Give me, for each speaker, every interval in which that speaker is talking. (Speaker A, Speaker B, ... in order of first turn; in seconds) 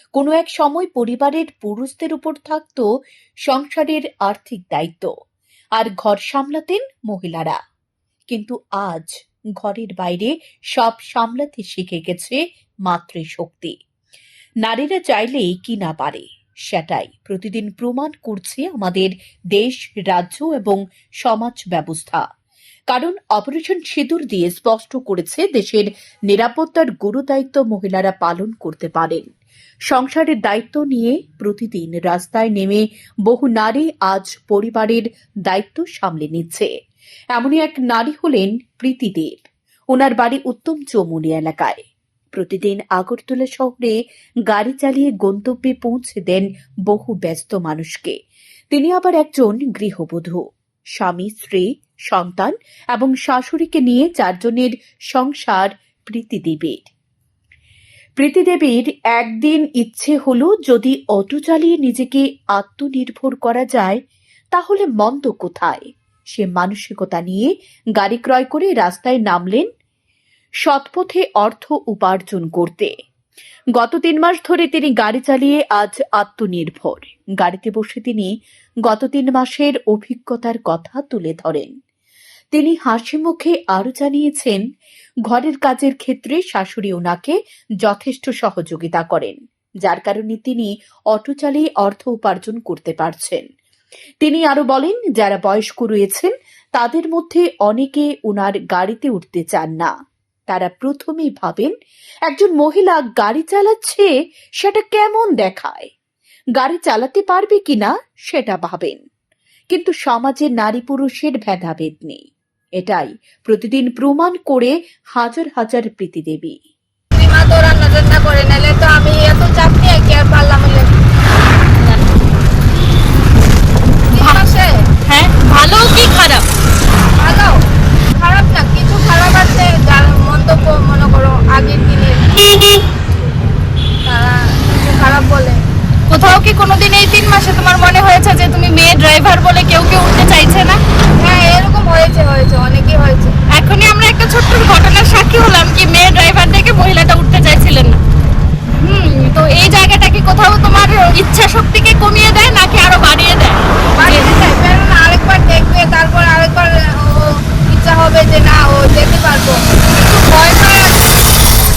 Speaker A: 0.2-2.9, 3.5-5.1, 5.8-7.6, 8.3-13.8, 14.6-22.2, 22.9-29.3, 29.9-36.7, 37.3-48.2, 48.7-50.4, 51.0-56.9, 58.2-64.0, 64.5-69.7, 70.6-72.9, 73.8-78.3, 78.8-81.7, 82.5-84.6, 85.3-93.5, 94.2-99.9, 100.5-101.7, 102.3-104.1, 104.6-105.9, 106.5-109.0, 109.7-112.2, 112.8-116.6
Speaker B: 117.1-120.9, 124.1-124.7, 127.2-127.6, 128.2-132.5, 134.1-135.6, 141.2-143.4, 154.0-160.9
Speaker C: 124.1-124.4, 125.1-126.5, 136.1-140.8, 143.5-148.0, 148.8-154.3